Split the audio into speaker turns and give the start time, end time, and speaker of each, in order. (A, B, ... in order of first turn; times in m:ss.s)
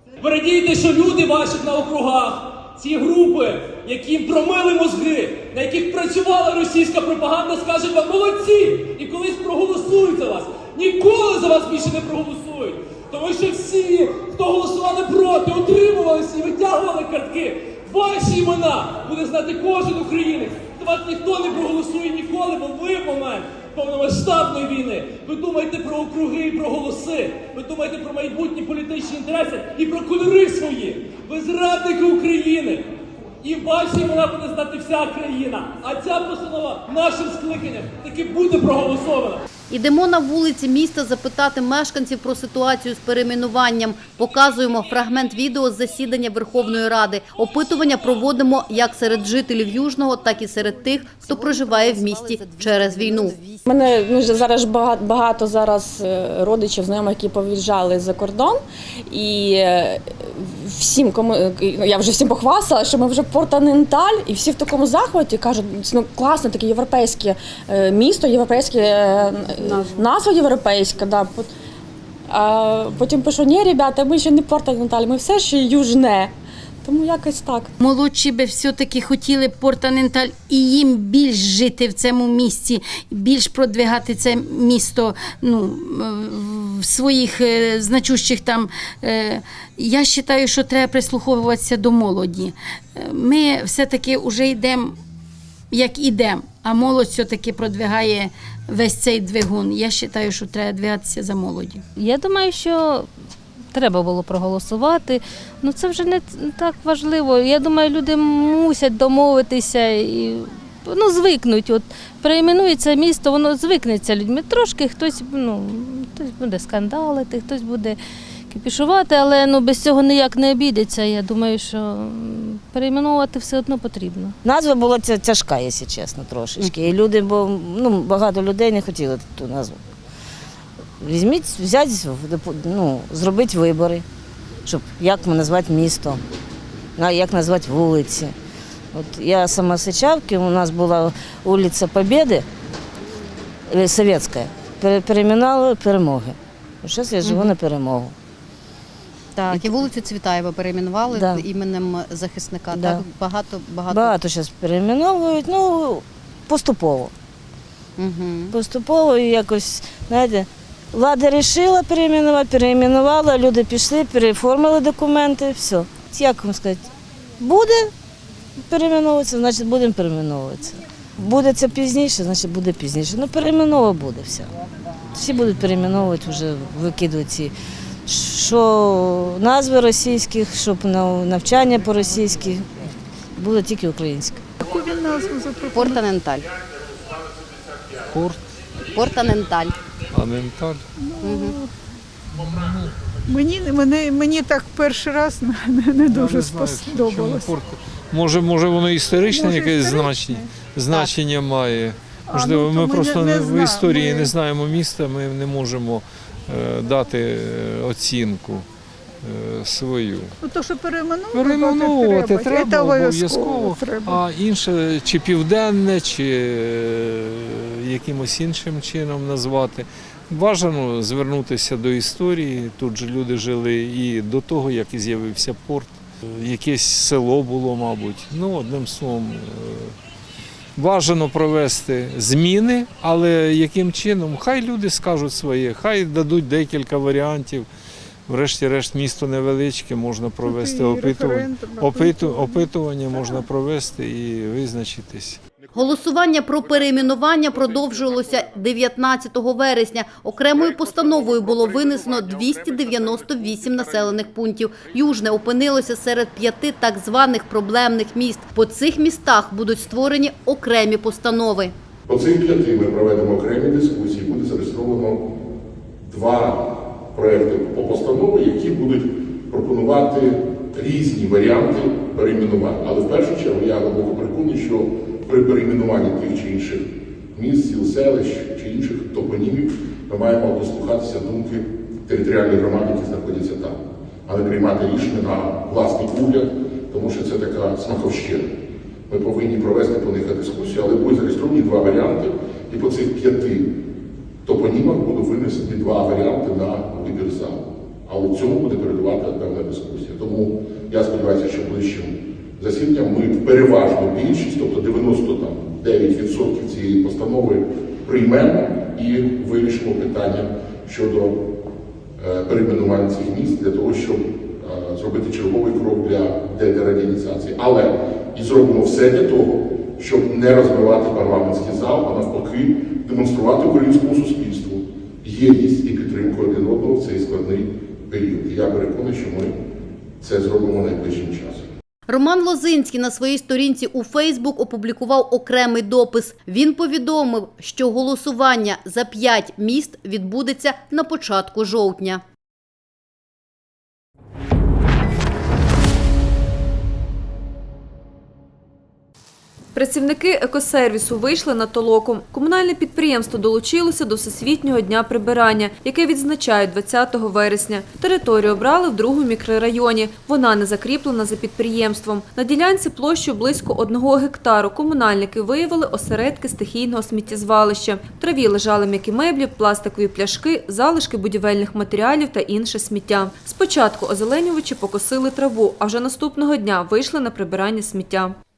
0:00.2-0:32.9 A
0:33.4-0:39.4 A
0:39.7-0:53.4 B
0:53.6-1:11.5 C
1:12.3-1:16.3 C
1:16.8-1:17.7 C
1:17.8-1:34.9 D
1:35.7-1:41.8 D
1:42.0-1:43.1 E
1:43.7-1:58.0 E
1:58.5-2:04.3 E
2:04.4-2:09.8 F
2:11.0-2:14.0 F
2:14.6-2:16.2 F
2:17.0-2:18.3 F
2:18.9-2:22.4 F
2:23.7-2:28.1 F
2:27.2-2:27.5 G
2:29.4-2:34.2 G
2:29.4-2:29.9 F
2:31.1-2:31.5 F
2:32.7-2:33.0 F
2:33.9-2:37.1 F
2:38.0-2:38.5 G
2:38.5-2:46.9 F
2:47.4-2:47.9 F
2:48.7-2:54.5 F
2:55.1-2:57.5 F
2:58.1-3:02.7 F
3:03.4-3:04.4 F
3:04.6-3:06.0 H
3:08.0-3:08.4 I
3:09.0-3:09.5 G
3:10.1-3:10.8 I
3:11.0-3:11.6 H
3:12.3-3:12.9 I
3:13.3-3:17.5 H
3:16.0-3:28.6 I
3:19.3-3:21.0 H
3:22.3-3:24.3 H
3:29.2-3:30.3 I
3:30.4-3:34.2 H
3:31.3-3:49.9 I
3:50.8-3:57.7 I
3:58.3-4:05.4 I
4:00.5-4:02.6 H
4:05.7-4:21.7 B
4:22.1-4:25.2 J
4:26.0-4:48.5 J
4:49.1-4:53.7 J
4:54.4-5:11.3 J
5:12.2-5:29.5 J
5:30.2-5:31.7 J
5:32.1-5:42.2 B
5:49.7-6:18.3 K